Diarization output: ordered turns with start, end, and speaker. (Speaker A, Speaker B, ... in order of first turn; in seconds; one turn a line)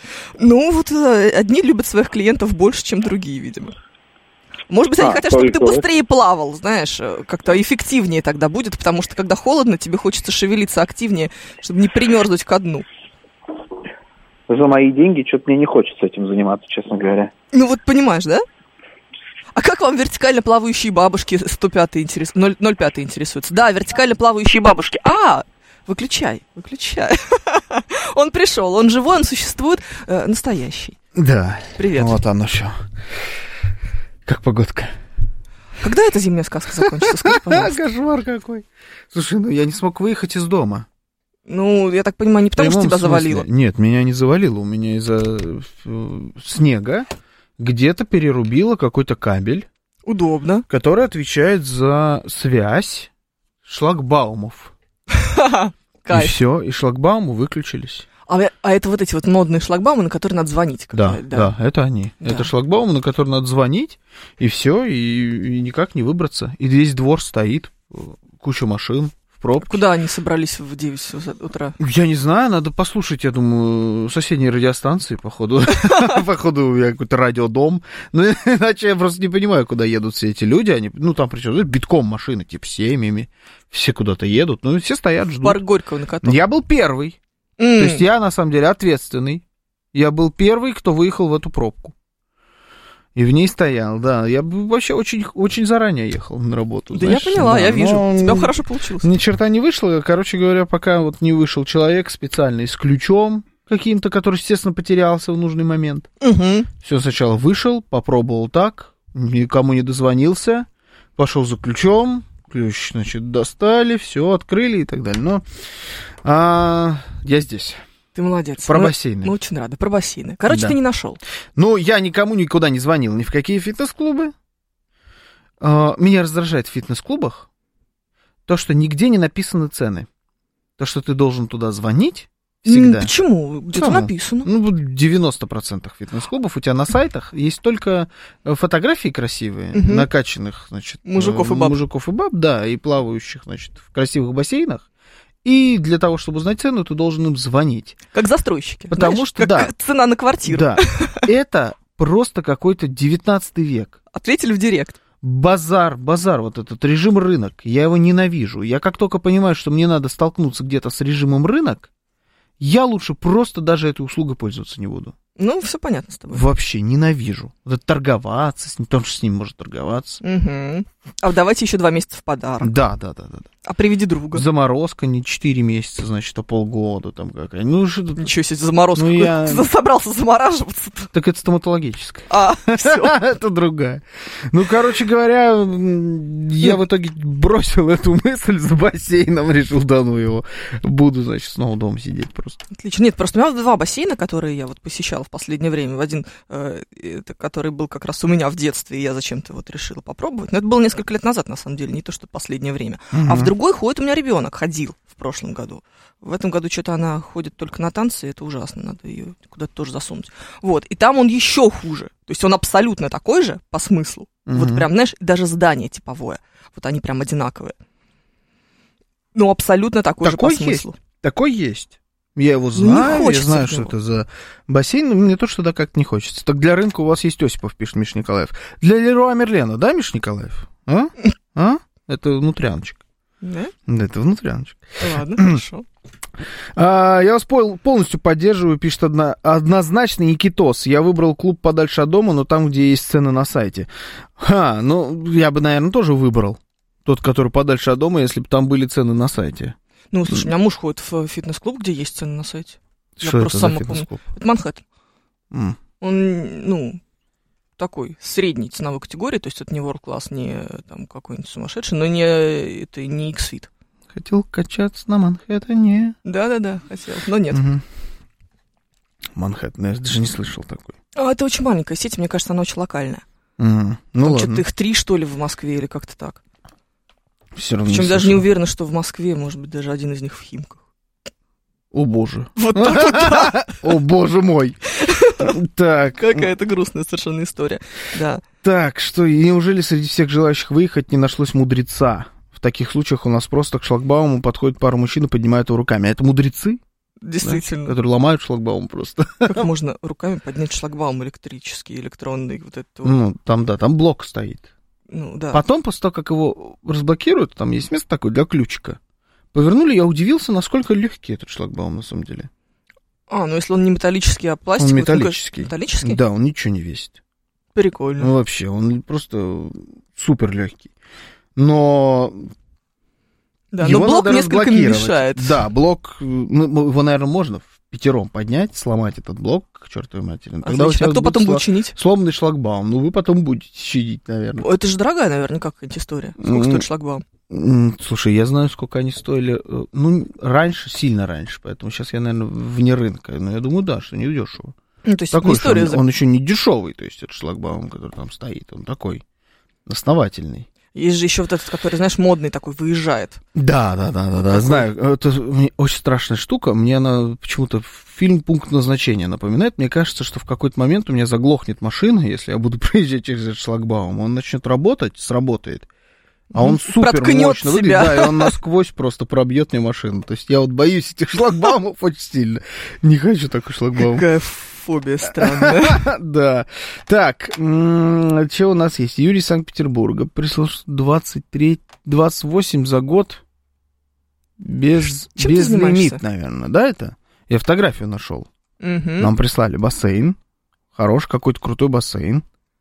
Speaker A: 0.4-3.8
Speaker A: 4.7-12.9
Speaker B: 5.0-5.9
Speaker B: 14.5-17.3
Speaker A: 17.5-18.4
Speaker A: 19.5-31.0
Speaker C: 31.1-32.8
Speaker A: 31.8-32.2
Speaker C: 34.2-34.9
Speaker A: 35.8-37.8
Speaker C: 36.8-40.9
Speaker A: 41.5-43.5
Speaker C: 42.6-47.1
Speaker C: 47.6-49.7
Speaker A: 50.1-50.7
Speaker C: 50.7-53.1
Speaker C: 53.6-54.7
Speaker A: 55.1-56.4
Speaker C: 56.1-58.1
Speaker A: 58.3-61.5
Speaker C: 60.9-69.8
Speaker A: 62.2-62.5
Speaker A: 69.6-71.8
Speaker C: 71.8-85.6
Speaker A: 85.4-86.4
Speaker C: 86.2-87.2
Speaker A: 87.6-88.0
Speaker C: 87.8-89.4
Speaker C: 89.9-91.9
Speaker C: 93.1-106.1
Speaker A: 96.9-99.1
Speaker A: 106.2-106.7
Speaker C: 106.8-115.4
Speaker C: 116.2-117.8
Speaker A: 118.1-121.2
Speaker C: 118.6-119.3
Speaker C: 120.5-120.8
Speaker C: 121.6-124.3
Speaker C: 125.6-127.5
Speaker C: 128.5-130.1
Speaker C: 130.8-133.1
Speaker A: 132.6-134.5
Speaker C: 133.7-144.8
Speaker A: 139.7-140.1
Speaker A: 141.1-141.8
Speaker C: 145.4-148.0
Speaker A: 148.1-151.2
Speaker C: 148.9-149.7
Speaker C: 150.4-154.0
Speaker A: 154.1-155.0
Speaker C: 155.2-161.9
Speaker C: 162.6-165.1
Speaker A: 165.4-166.4
Speaker C: 166.3-170.2
Speaker A: 170.2-172.8
Speaker C: 172.6-173.5
Speaker A: 173.6-174.4
Speaker C: 174.3-178.3
Speaker A: 178.2-181.1
Speaker C: 179.0-179.7
Speaker C: 181.1-192.6
Speaker A: 182.3-183.2
Speaker A: 192.7-217.7
Speaker C: 203.1-203.5
Speaker C: 214.5-214.9
Speaker A: 219.3-220.9
Speaker C: 220.2-233.0
Speaker A: 222.8-223.9
Speaker A: 233.4-233.7
Speaker C: 233.9-235.6
Speaker A: 235.0-235.9
Speaker C: 236.8-249.8
Speaker A: 250.1-254.8
Speaker C: 253.2-254.2
Speaker C: 255.5-255.8
Speaker A: 256.0-257.0
Speaker A: 257.8-263.7
Speaker C: 264.1-266.2
Speaker A: 266.2-267.6
Speaker C: 267.5-267.8
Speaker C: 269.4-270.9
Speaker A: 271.1-273.2
Speaker C: 273.6-274.6
Speaker A: 274.2-276.4
Speaker C: 277.6-278.4
Speaker A: 277.9-280.8
Speaker C: 281.9-284.8
Speaker A: 282.6-283.9
Speaker A: 285.0-285.6
Speaker C: 285.4-286.5
Speaker A: 286.2-288.4
Speaker C: 288.6-296.8
Speaker A: 297.2-297.9
Speaker C: 297.4-299.7
Speaker A: 299.5-303.1
Speaker C: 303.0-304.7
Speaker A: 305.1-305.6
Speaker C: 305.5-309.0
Speaker C: 309.5-312.5
Speaker A: 313.3-316.2
Speaker C: 314.8-317.2
Speaker A: 317.8-318.3
Speaker C: 318.2-320.9
Speaker C: 321.6-322.5
Speaker A: 323.7-325.6
Speaker C: 323.8-334.7
Speaker A: 330.6-331.9
Speaker A: 334.6-337.2
Speaker C: 336.4-336.9
Speaker C: 337.5-344.8
Speaker A: 345.1-346.0
Speaker C: 345.3-349.2
Speaker C: 349.9-350.7
Speaker A: 350.9-353.4
Speaker C: 353.6-365.9
Speaker A: 354.4-354.9
Speaker A: 366.5-368.6
Speaker C: 366.5-374.2
Speaker A: 374.0-376.1
Speaker C: 375.3-383.4
Speaker C: 384.6-388.5
Speaker A: 385.4-386.2
Speaker A: 388.8-389.3
Speaker C: 389.2-390.4
Speaker C: 390.9-392.4